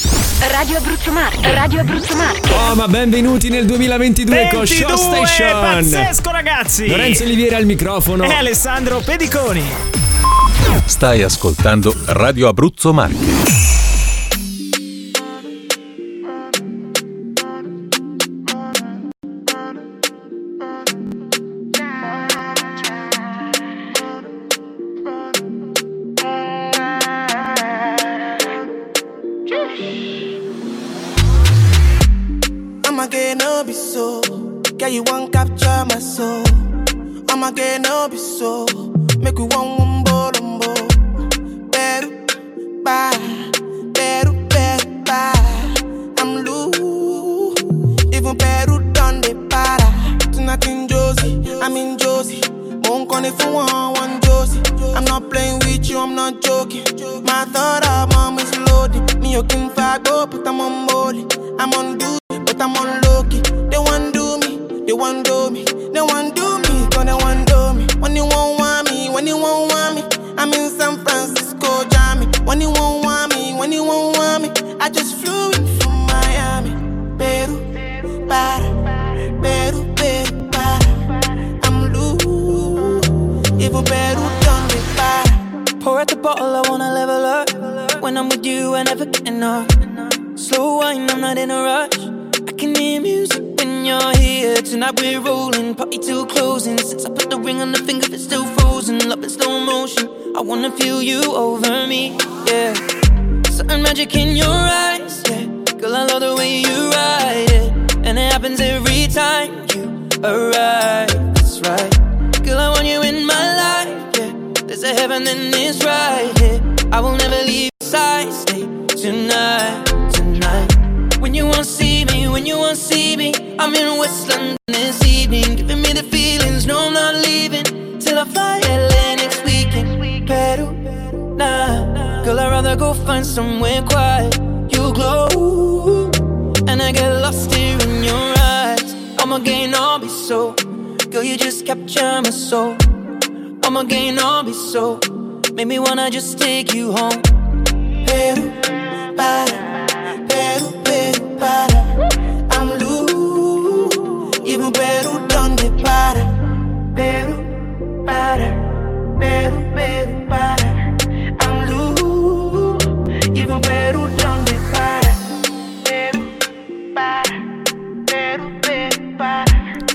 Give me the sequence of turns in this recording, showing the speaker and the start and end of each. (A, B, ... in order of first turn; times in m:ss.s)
0:00.4-0:02.6 A
0:02.4-0:06.1 B
0:04.3-0:07.3 C
0:06.9-0:08.4 B
0:08.2-0:09.8 C
0:10.9-0:13.4 D
0:32.8-0:36.7 E
0:37.3-0:41.0 E
0:41.7-0:42.2 E
0:42.8-1:17.7 E
1:18.2-1:25.4 E
1:25.8-1:42.9 F
1:43.5-2:22.8 F
2:23.6-2:27.3 F
2:28.0-2:31.9 E
2:32.5-2:36.3 E
2:36.9-2:45.2 E
2:45.9-2:46.3 E
2:47.0-2:47.4 E
2:48.1-2:49.6 E